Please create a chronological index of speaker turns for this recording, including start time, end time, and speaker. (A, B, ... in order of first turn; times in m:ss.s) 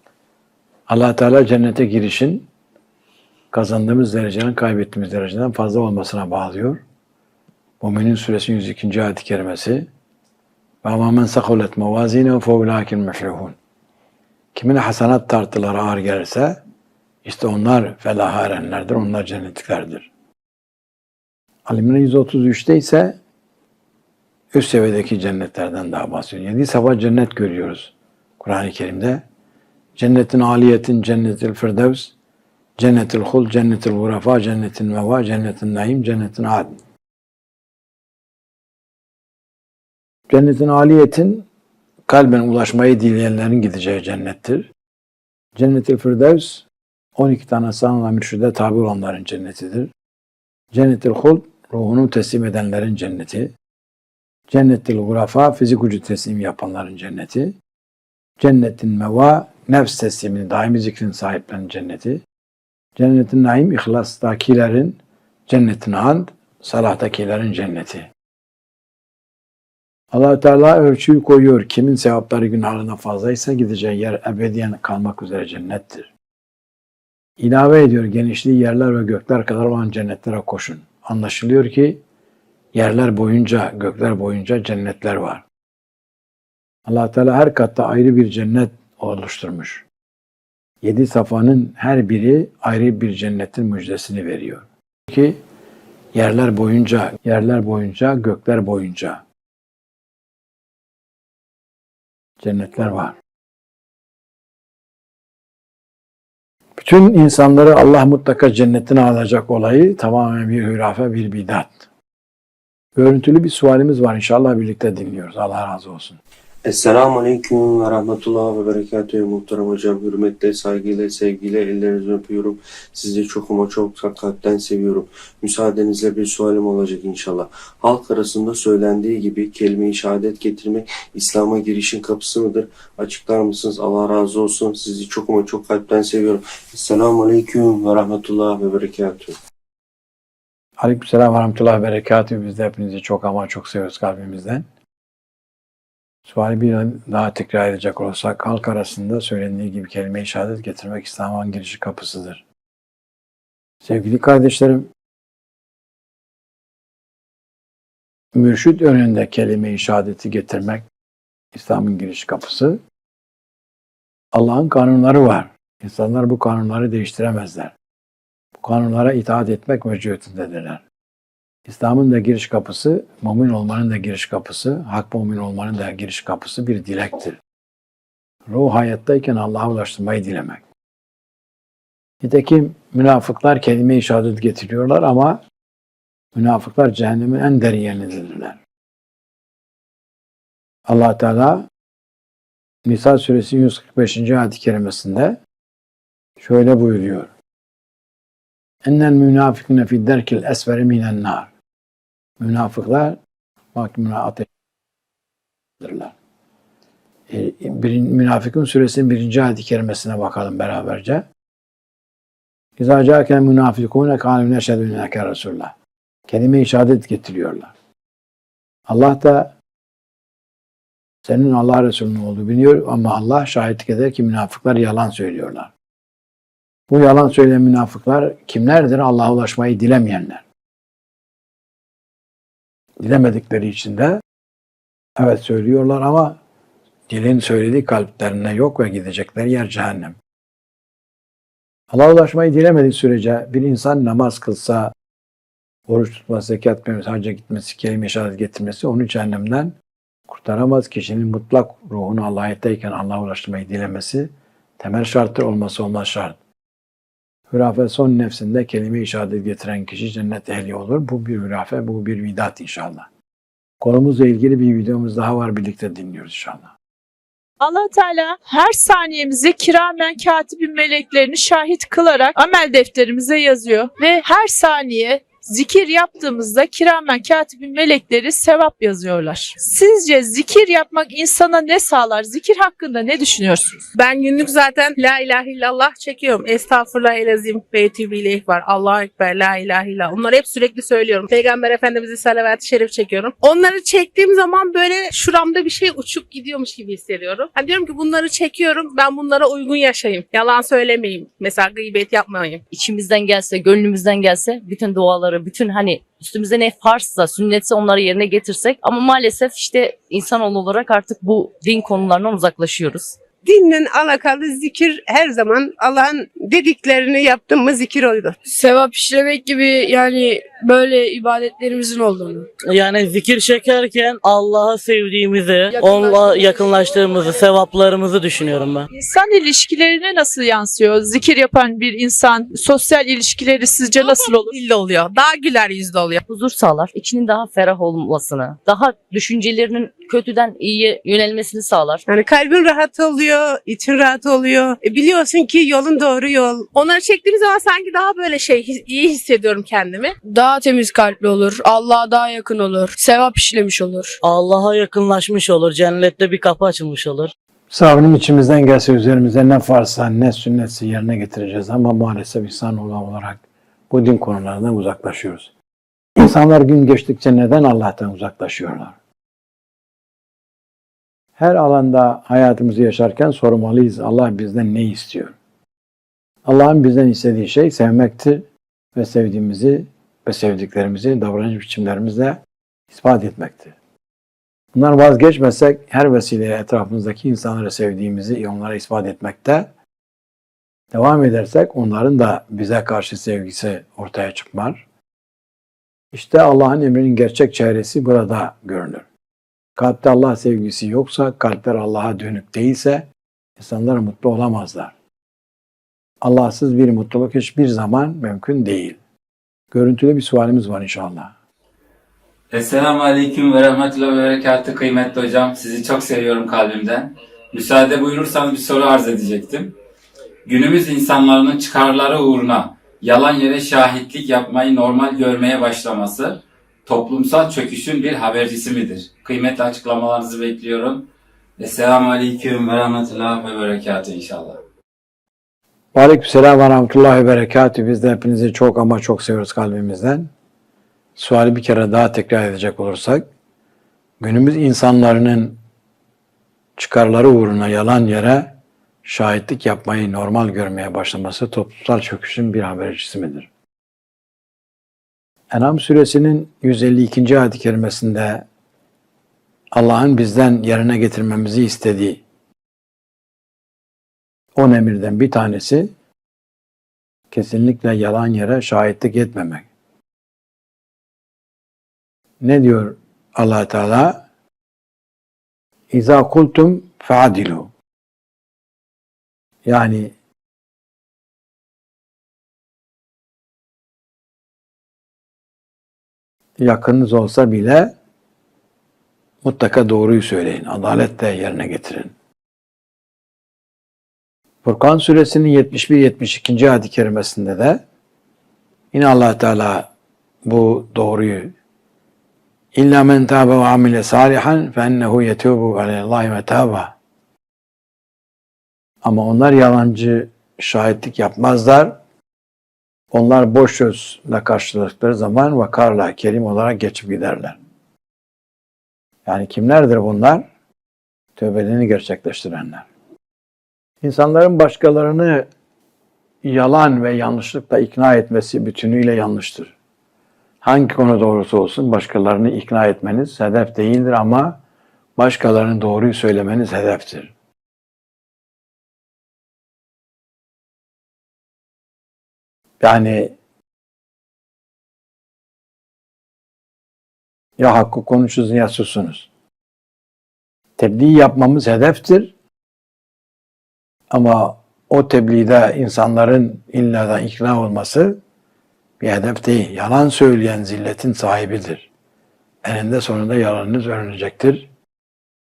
0:00.9-0:02.5 A
0:03.5-0:06.8 A
0:07.8-0:09.9 A
0:10.8-0:13.6 A
0:14.5-0:16.6 A
0:17.2-0:20.1 A
0:21.7-0:23.2 A
0:24.5-0:29.2 A
0:30.0-0:32.1 A
0:32.8-0:36.8 A
0:40.3-0:41.5 A
0:42.1-0:44.7 A
0:45.6-0:46.6 A
0:47.2-0:49.9 A
0:50.7-0:53.5 A
0:54.5-0:57.6 A
0:58.4-1:02.2 A
1:03.0-1:08.1 A
1:10.1-1:16.1 A
1:17.4-1:22.0 A
1:22.7-1:25.4 A
1:26.9-1:29.8 A
1:30.8-1:35.4 A
1:36.1-1:39.2 A
1:42.4-1:43.2 A
1:46.8-1:51.9 A
1:53.0-1:56.2 A
1:56.6-2:19.3 B
2:20.8-2:24.6 A
2:26.3-2:32.4 A
2:33.8-2:34.9 A
2:38.3-2:40.8 A
2:41.5-2:42.8 A
2:44.3-2:47.7 A
2:48.6-2:50.8 A
2:51.7-2:57.4 A
2:58.5-3:00.6 A
3:02.2-3:05.4 A
3:06.4-3:08.6 A
3:10.9-3:11.7 A
3:12.8-3:15.4 A
3:16.4-3:17.3 A
3:18.8-3:21.5 A
3:22.4-3:23.2 A
3:23.7-3:24.5 A
3:25.8-3:26.1 A
3:27.3-3:31.2 A
3:32.8-3:35.7 A
3:36.3-3:37.7 A
3:38.9-3:39.5 A
3:41.2-3:45.7 A
3:46.9-3:50.4 A
3:53.0-3:54.2 A
3:55.2-3:56.4 A
3:57.1-4:00.2 A
4:01.9-4:04.9 A
4:05.9-4:09.7 A
4:10.3-4:16.4 A
4:17.5-4:23.1 A
4:23.8-4:26.7 A
4:27.6-4:43.8 C
4:44.0-5:02.6 D
5:02.7-5:13.2 E
5:13.4-5:18.4 F
5:18.4-5:22.5 G
5:22.6-5:28.9 H
5:25.7-5:26.7 G
5:28.9-5:34.5 C
5:34.0-5:36.2 D
5:36.3-5:42.0 E
5:42.1-5:46.7 F
5:46.7-5:50.2 D
5:50.2-5:54.2 G
5:54.2-5:57.3 H
5:57.7-6:05.5 A
6:06.2-6:09.0 A
6:11.4-6:15.4 A
6:16.4-6:22.4 A
6:22.9-6:23.8 A
6:24.7-6:29.7 A
6:30.9-6:34.8 A
6:36.1-6:39.0 A
6:39.8-6:44.9 A
6:46.2-6:49.0 A
6:49.7-6:51.3 A
6:52.5-6:59.7 I
7:00.5-7:11.1 I
7:11.6-7:14.6 I
7:15.9-7:20.3 A
7:21.2-7:23.3 A
7:24.2-7:25.6 A
7:26.8-7:33.5 A
7:35.5-7:38.4 A
7:39.7-7:42.2 A
7:44.6-7:45.9 A
7:47.3-7:49.7 A
7:52.4-7:54.2 A
7:55.9-7:57.7 A
7:59.6-8:00.1 A
8:06.6-8:07.9 A
8:09.4-8:12.1 A
8:14.6-8:17.8 A
8:18.9-8:19.9 A
8:20.4-8:21.5 A
8:22.7-8:26.9 A
8:29.0-8:32.0 A
8:33.1-8:37.6 A
8:39.2-8:40.5 A
8:41.4-8:42.9 A
8:44.0-8:45.5 A
8:46.4-8:49.8 A
8:50.6-8:54.6 A
8:55.2-8:57.3 A
9:02.8-9:03.3 A
9:07.6-9:09.3 A
9:10.8-9:12.3 A
9:14.1-9:18.2 A
9:19.0-9:21.9 A
9:22.6-9:24.7 A